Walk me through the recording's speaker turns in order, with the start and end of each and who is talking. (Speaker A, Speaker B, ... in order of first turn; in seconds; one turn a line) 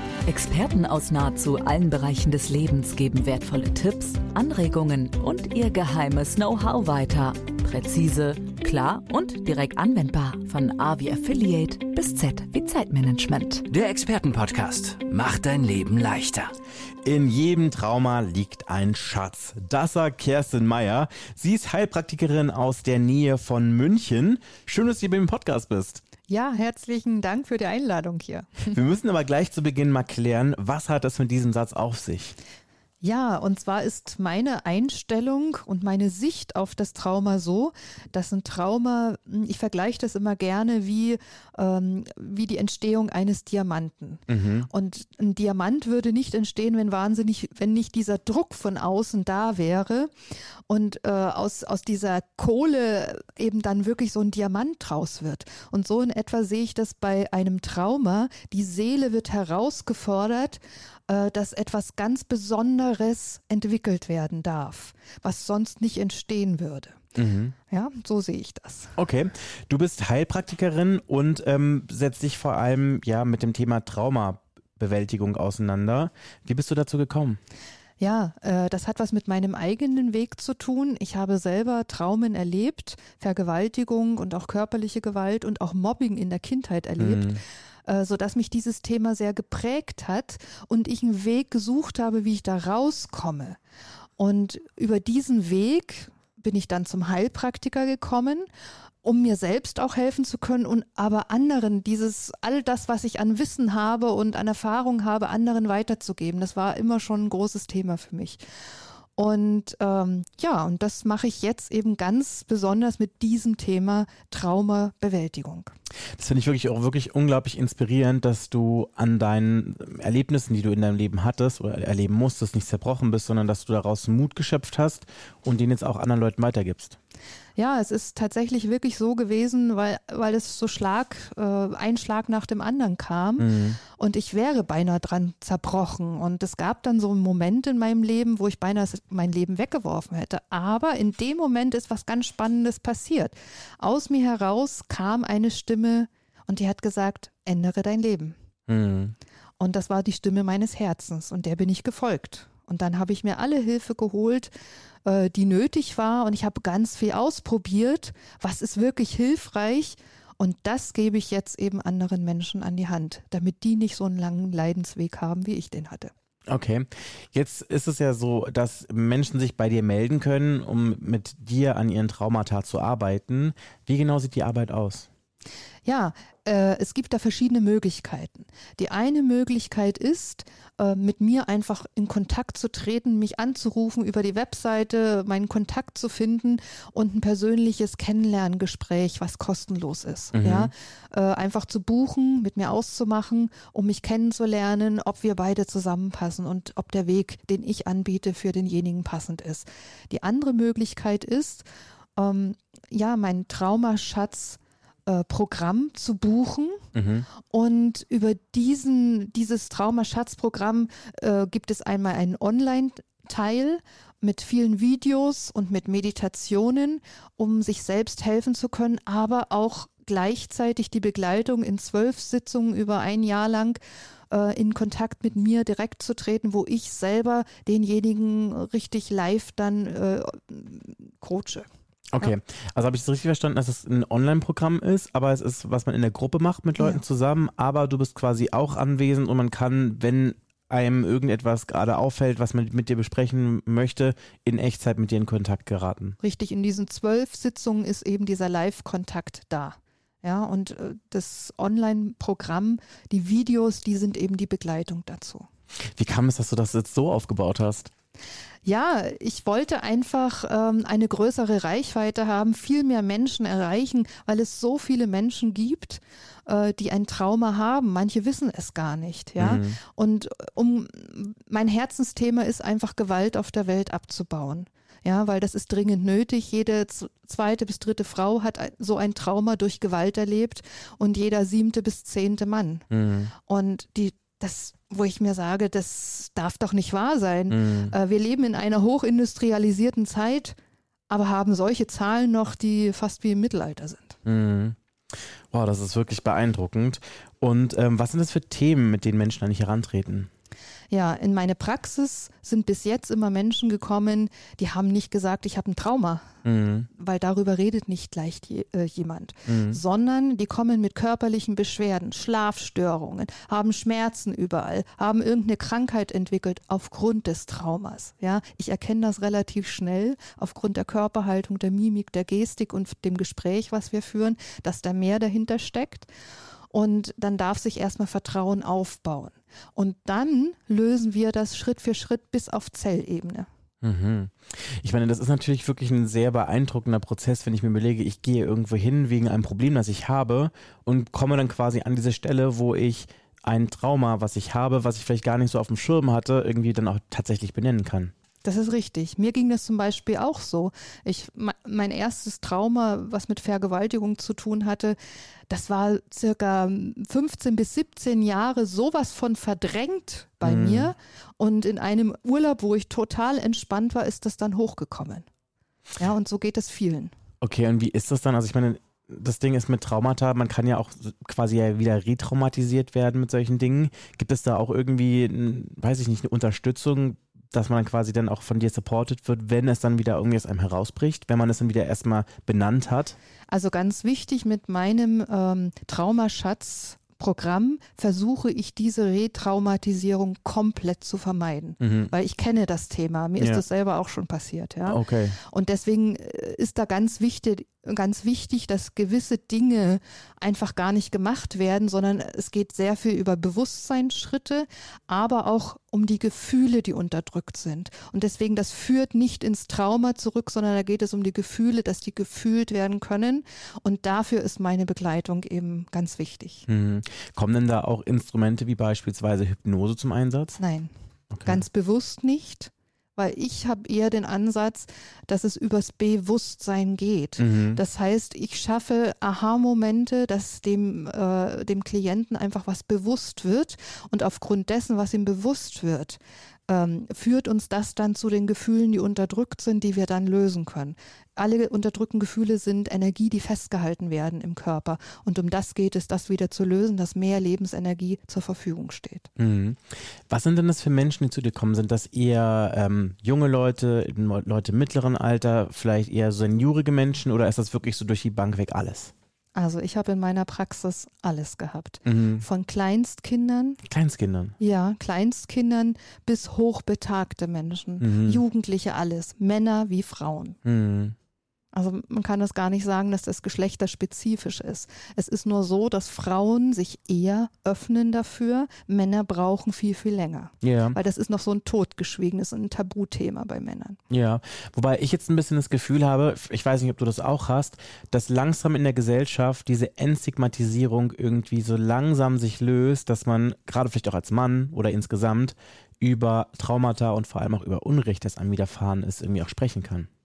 Speaker A: 0.2-13.7
Speaker B: 13.7-16.5
Speaker C: 17.0-26.0
Speaker D: 26.3-28.8
Speaker C: 28.7-32.4
Speaker D: 33.0-50.1
Speaker C: 44.3-44.7
Speaker D: 50.7-67.0
Speaker C: 67.2-67.5
Speaker D: 67.7-68.9
Speaker C: 69.0-77.4
Speaker D: 78.0-93.6
Speaker C: 87.0-87.4
Speaker D: 94.2-98.5
Speaker D: 99.0-108.4
Speaker D: 109.2-115.7
Speaker C: 116.2-127.0
Speaker D: 127.5-148.4
Speaker C: 133.4-133.8
Speaker C: 148.7-149.1
Speaker D: 149.6-154.5
Speaker D: 155.0-166.1
Speaker C: 166.5-175.1
Speaker D: 175.8-206.8
Speaker C: 190.3-190.7
Speaker C: 206.9-207.2
Speaker D: 207.5-223.8
Speaker D: 224.3-231.7
Speaker C: 232.1-246.2
Speaker D: 246.2-255.5
Speaker C: 255.9-257.9
Speaker D: 258.6-282.8
Speaker C: 269.4-269.8
Speaker C: 282.9-283.3
Speaker D: 283.4-290.5
Speaker C: 287.5-287.9
Speaker D: 291.1-294.2
Speaker C: 294.2-294.8
Speaker C: 295.5-300.3
Speaker D: 300.9-306.3
Speaker C: 306.4-306.9
Speaker D: 306.9-326.1
Speaker C: 309.5-309.8
Speaker D: 326.7-333.5
Speaker C: 333.8-348.1
Speaker D: 348.4-355.0
Speaker D: 355.5-365.3
Speaker C: 360.4-360.9
Speaker D: 366.0-367.1
Speaker C: 367.4-383.1
Speaker D: 383.5-416.7
Speaker C: 391.8-392.1
Speaker C: 393.4-393.6
Speaker C: 394.8-395.4
Speaker C: 416.7-420.6
Speaker D: 420.6-420.9
Speaker C: 421.3-421.6
Speaker D: 421.4-449.3
Speaker C: 427.4-427.8
Speaker C: 449.4-459.1
Speaker D: 459.5-463.8
Speaker C: 462.1-462.4
Speaker C: 463.8-464.5
Speaker D: 464.6-470.6
Speaker C: 468.0-468.4
Speaker C: 470.6-471.1
Speaker D: 471.7-484.0
Speaker C: 480.6-481.0
Speaker C: 484.1-500.1